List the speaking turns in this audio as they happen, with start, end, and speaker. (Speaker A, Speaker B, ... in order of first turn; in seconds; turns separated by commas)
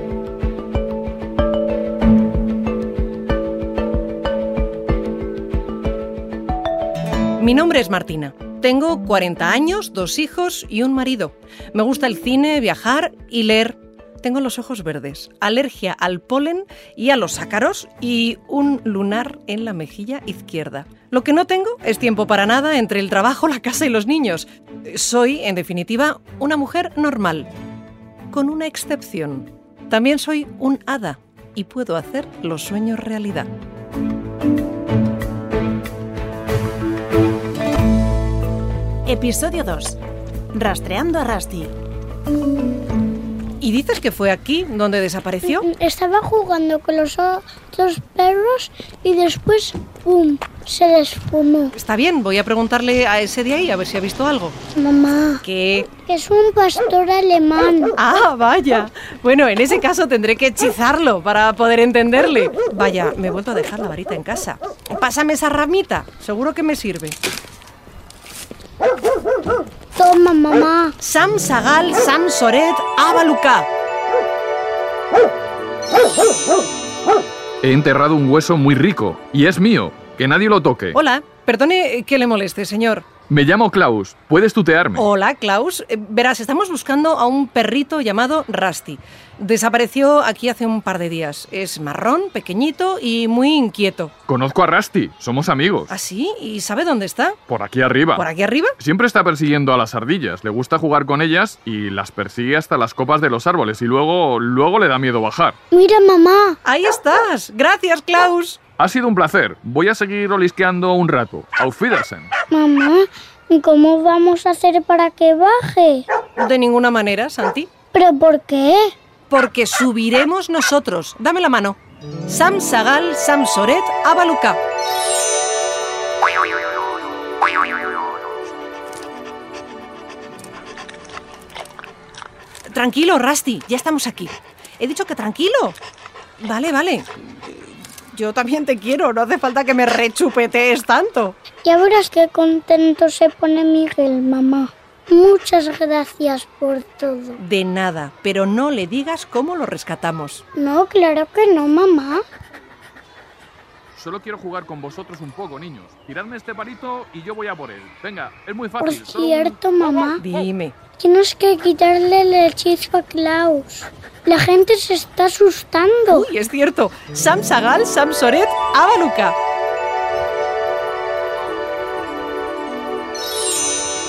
Speaker A: 7.4-27.5, Speaker A: 28.3-33.5, Speaker B: 39.1-40.0, Speaker B: 40.5-41.7, Speaker A: 43.6-45.7, Speaker C: 45.4-51.7, Speaker A: 51.7-54.6, Speaker C: 54.8-55.4, Speaker A: 55.4-55.9, Speaker C: 56.0-57.9, Speaker A: 58.0-67.2, Speaker C: 70.0-70.9, Speaker A: 71.0-73.7, Speaker D: 77.6-81.0, Speaker A: 80.9-83.0, Speaker D: 83.3-85.0, Speaker A: 85.0-94.1, Speaker D: 94.3-95.9, Speaker A: 95.9-97.4, Speaker D: 97.5-98.2, Speaker A: 98.1-98.7, Speaker D: 98.8-105.6, Speaker C: 105.7-106.6, Speaker A: 106.6-108.6, Speaker D: 108.8-112.3, Speaker C: 112.5-116.0, Speaker A: 116.4-117.7, Speaker C: 117.9-118.9, Speaker A: 119.3-124.6, Speaker A: 132.7-135.8, Speaker A: 136.4-141.3, Speaker C: 141.6-147.4, Speaker A: 147.4-150.4, Speaker C: 150.5-152.2, Speaker D: 153.9-159.6, Speaker C: 158.8-160.2, Speaker A: 160.2-160.7, Speaker C: 161.0-166.3, Speaker A: 166.1-169.3